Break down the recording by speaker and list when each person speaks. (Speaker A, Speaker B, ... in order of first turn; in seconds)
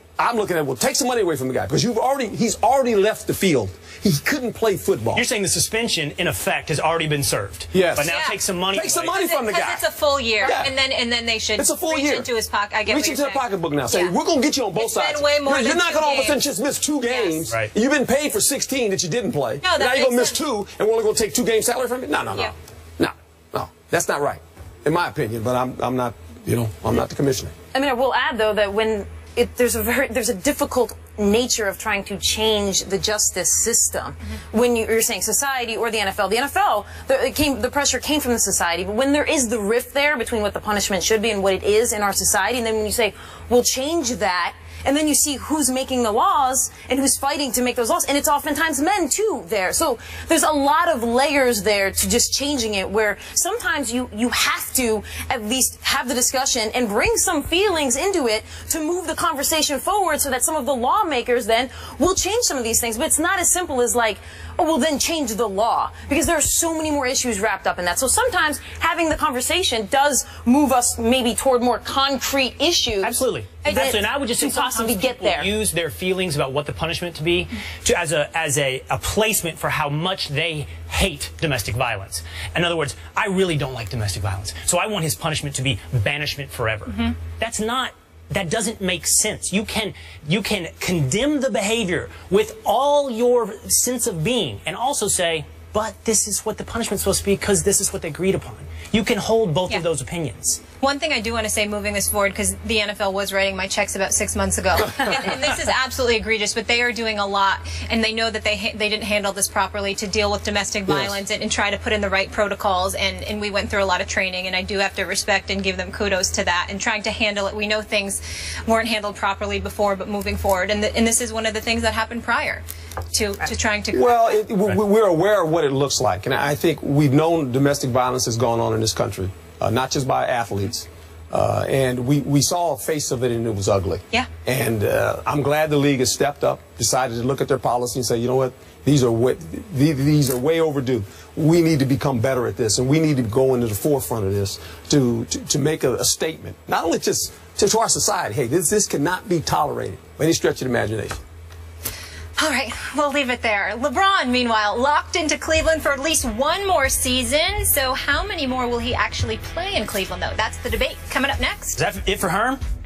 Speaker A: 0.2-5.2, 7.7-8.1, 8.7-9.8, 10.4-10.7, 11.6-12.3, 12.9-27.5, 110.9-111.1, 123.9-151.2
Speaker B: 5.1-9.2, 73.0-100.6, 161.8-162.6
Speaker C: 8.0-8.4, 9.1-14.1, 14.8-16.4, 17.1-17.5, 19.6-20.4, 73.7-73.9, 100.8-124.4, 152.4-161.8
Speaker D: 27.7-75.5